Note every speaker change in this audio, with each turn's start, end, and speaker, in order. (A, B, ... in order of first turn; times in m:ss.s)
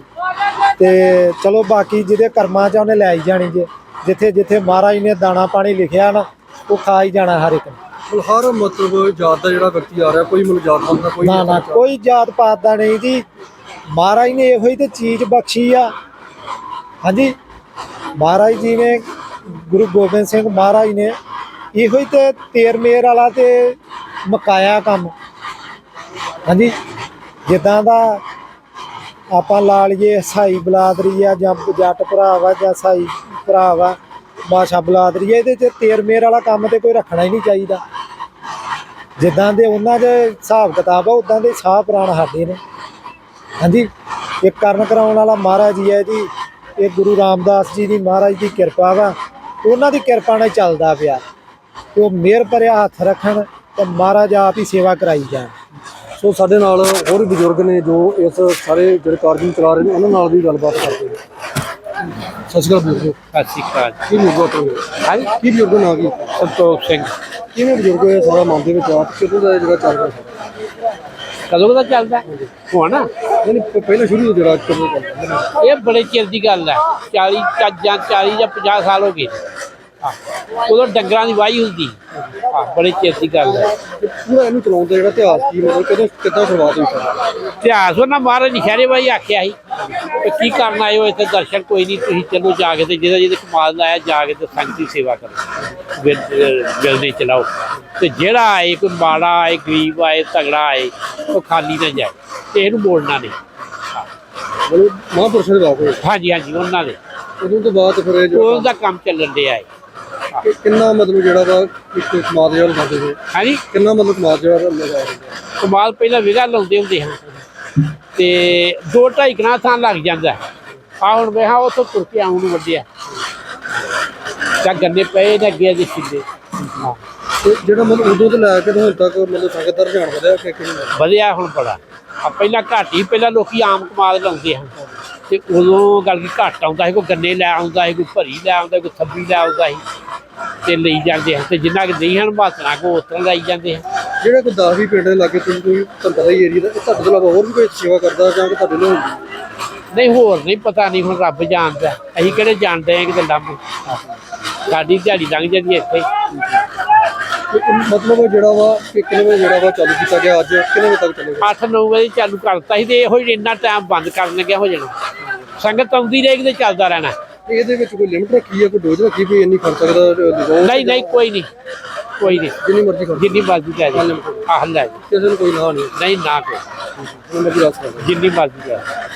0:00.8-0:07.8 A
0:08.1-0:11.8 B
0:11.2-0:13.2 A
0:13.9-0:15.9 A
0:17.0-0:17.3 A
0:18.2-0:21.1 A
0:21.7-0:25.1 A
0:26.5-0:26.7 A
0:27.5-0:28.2 A
0:29.3-0:37.8 A
0:39.2-0:42.6 A
0:43.6-0:43.9 A
0:44.4-0:51.2 A
0:51.9-0:55.5 A
0:56.2-1:01.2 B
1:02.5-1:03.2 B
1:03.3-1:04.0 C
1:04.1-1:06.3 B
1:05.0-1:05.3 C
1:06.4-1:07.1 C
1:07.5-1:10.3 B
1:11.5-1:13.1 C
1:13.4-1:15.5 B
1:15.6-1:19.4 C
1:20.0-1:22.0 C
1:22.5-1:23.8 C
1:23.9-1:27.2 B
1:27.6-1:35.4 C
1:35.9-1:43.4 C
1:44.6-1:46.0 B
1:46.0-1:47.0 C
1:47.4-1:48.7 B
1:48.3-1:49.7 C
1:50.4-1:53.2 B
1:53.3-1:53.6 C
1:53.7-1:55.4 B
1:55.6-1:57.2 C
1:58.1-2:00.4 C
2:01.0-2:02.8 C
2:04.6-2:07.0 C
2:07.4-2:10.9 B
2:10.9-2:14.7 C
2:15.3-2:19.8 C
2:20.6-2:23.8 C
2:24.2-2:29.2 B
2:29.9-2:34.0 C
2:34.7-2:36.1 C
2:37.5-2:41.5 B
2:41.4-2:44.9 C
2:45.6-2:47.2 C
2:47.5-2:51.2 B
2:50.6-2:51.5 C
2:52.2-2:52.6 C
2:52.2-2:54.5 B
2:53.1-2:55.0 C
2:55.1-2:56.0 B
2:56.0-2:56.6 C
2:57.0-2:58.1 B
2:58.0-2:58.8 C